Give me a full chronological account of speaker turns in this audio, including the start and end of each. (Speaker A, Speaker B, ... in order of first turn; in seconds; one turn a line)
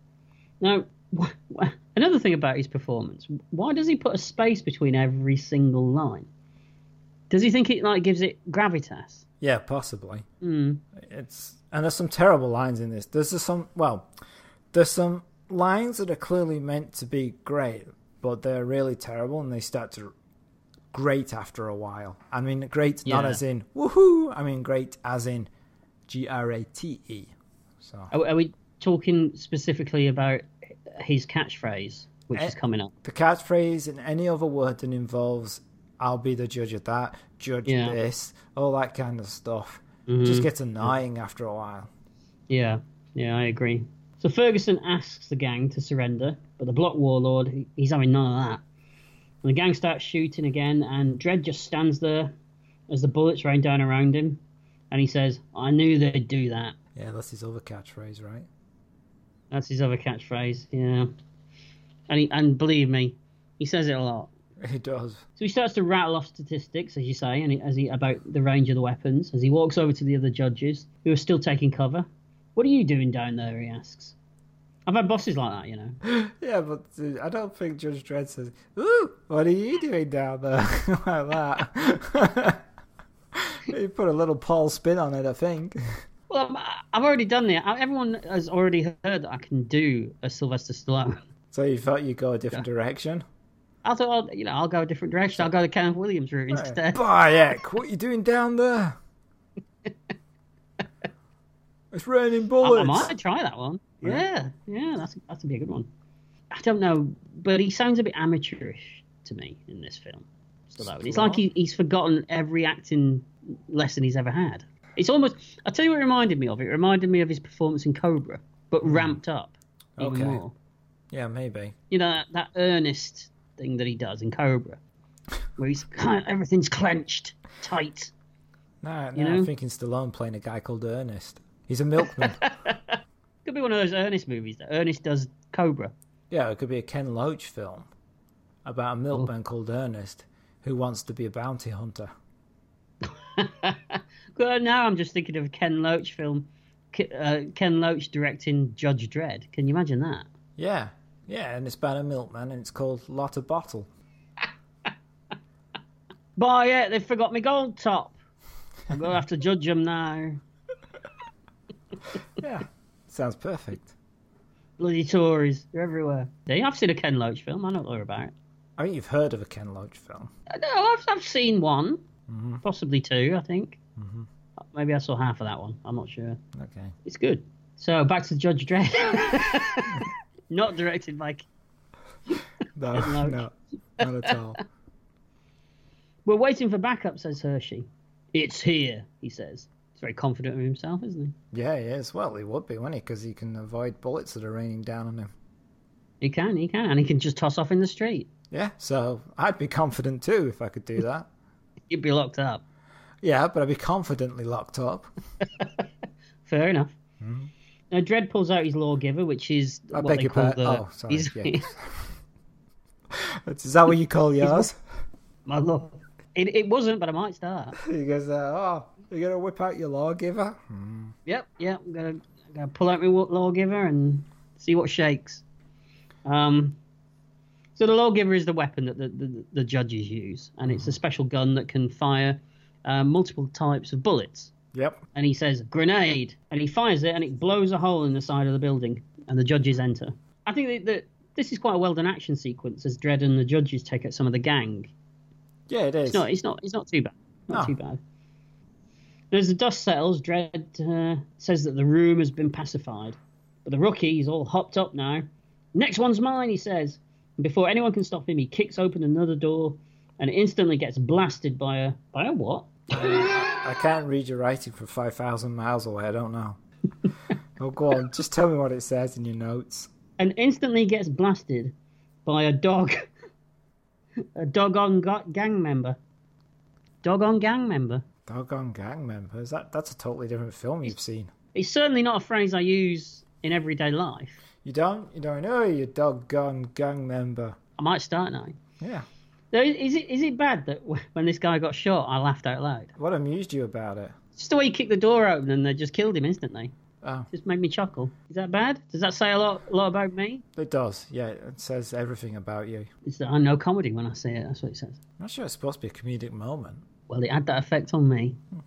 Speaker A: 0.6-6.3
Speaker A: 7.3-9.2
Speaker B: 9.4-10.2
Speaker A: 10.4-10.8
Speaker B: 10.9-14.1
Speaker B: 14.7-20.1
Speaker B: 20.9-25.5
Speaker A: 23.0-23.4
Speaker B: 26.1-28.1
Speaker A: 28.1-32.9
Speaker B: 32.3-41.9
Speaker A: 37.6-38.0
Speaker A: 40.1-40.9
Speaker A: 42.5-48.6
Speaker A: 49.4-52.3
Speaker A: 52.9-56.8
Speaker B: 56.9-58.5
Speaker A: 59.5-61.1
Speaker A: 62.1-64.3
Speaker B: 64.6-65.2
Speaker A: 65.4-74.1
Speaker A: 74.8-76.0
Speaker B: 76.0-82.6
Speaker B: 83.3-86.0
Speaker A: 86.3-91.2
Speaker B: 91.5-93.2
Speaker A: 93.8-97.0
Speaker B: 96.5-99.0
Speaker B: 101.9-103.1
Speaker A: 102.6-105.9
Speaker A: 106.5-120.5
Speaker B: 110.8-111.4
Speaker B: 118.8-119.2
Speaker B: 120.0-120.4
Speaker B: 121.1-121.7
Speaker A: 121.9-124.8
Speaker A: 125.6-128.1
Speaker B: 128.8-132.4
Speaker A: 129.1-129.5
Speaker A: 132.0-135.9
Speaker B: 136.3-137.9
Speaker B: 138.6-142.1
Speaker A: 143.2-150.2
Speaker B: 150.6-153.9
Speaker A: 156.4-158.2
Speaker A: 158.9-160.4
Speaker B: 162.4-163.9
Speaker A: 164.8-168.3
Speaker B: 168.8-170.3
Speaker A: 170.5-172.0
Speaker B: 172.3-172.6
Speaker A: 172.6-173.8
Speaker B: 174.0-174.3
Speaker A: 174.7-176.4
Speaker B: 176.5-176.9
Speaker A: 177.0-181.5
Speaker B: 182.7-184.6
Speaker A: 182.9-183.4
Speaker A: 184.0-184.3
Speaker A: 186.2-191.3
Speaker B: 191.5-195.3
Speaker A: 196.2-198.3
Speaker B: 198.5-201.3
Speaker A: 201.9-202.6
Speaker B: 203.2-205.1
Speaker A: 205.4-205.8
Speaker A: 206.4-206.9
Speaker B: 207.2-207.5
Speaker A: 207.9-211.7
Speaker B: 209.9-212.1
Speaker B: 213.1-214.8
Speaker A: 214.4-214.7
Speaker A: 215.5-217.8
Speaker B: 217.8-221.1
Speaker A: 221.2-225.4
Speaker A: 226.2-226.8
Speaker A: 227.8-234.5
Speaker B: 230.7-230.9
Speaker B: 234.7-235.0
Speaker A: 235.1-244.9
Speaker B: 245.7-246.2
Speaker A: 246.1-248.0
Speaker A: 249.3-263.6
Speaker B: 262.9-266.6
Speaker B: 267.6-269.9
Speaker A: 270.2-271.7
Speaker A: 272.2-273.1
Speaker A: 274.4-276.0
Speaker A: 277.0-278.0
Speaker B: 278.3-281.3
Speaker A: 281.5-284.4
Speaker B: 284.6-287.6
Speaker A: 287.8-288.6
Speaker B: 288.8-289.1
Speaker A: 289.5-292.9
Speaker B: 293.0-294.1
Speaker A: 294.4-296.7
Speaker B: 297.0-297.3
Speaker A: 297.3-300.4
Speaker B: 300.6-302.9
Speaker A: 303.1-305.0
Speaker B: 305.2-306.8
Speaker A: 307.1-308.4